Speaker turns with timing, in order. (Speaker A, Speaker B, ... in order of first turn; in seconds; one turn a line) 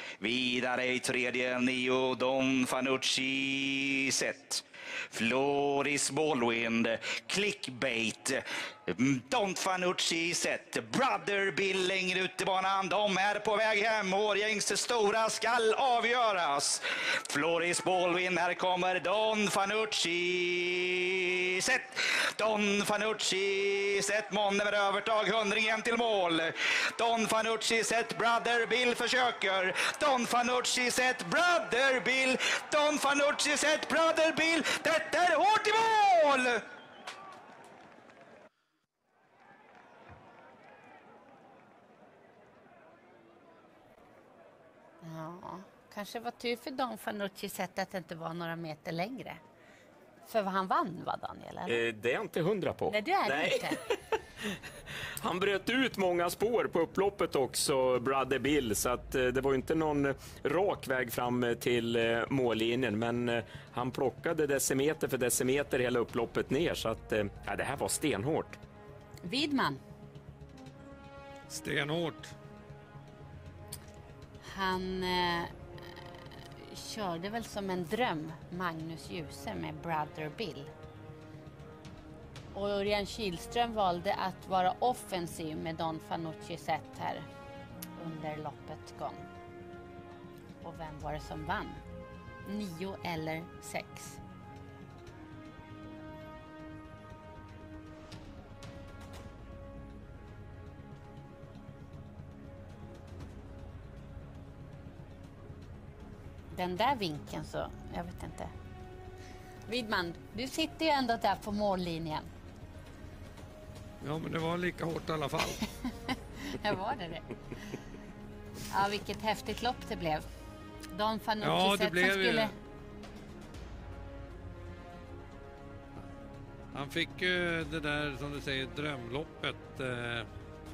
Speaker A: 0.2-36.6
Speaker B: 45.0-49.4
Speaker B: 50.2-51.8
Speaker C: 51.7-53.9
Speaker B: 52.9-53.8
Speaker C: 55.2-68.6
Speaker B: 69.2-69.8
Speaker D: 71.5-72.3
Speaker B: 74.4-75.5
Speaker B: 76.6-80.7
Speaker B: 82.5-87.2
Speaker B: 88.0-89.2
Speaker B: 90.6-91.8
Speaker B: 92.4-94.2
Speaker B: 106.5-108.5
Speaker B: 109.7-112.3
Speaker D: 114.0-115.6
Speaker B: 116.1-117.3
Speaker B: 118.7-120.2
Speaker B: 120.9-122.5
Speaker D: 121.4-122.5
Speaker D: 126.7-130.3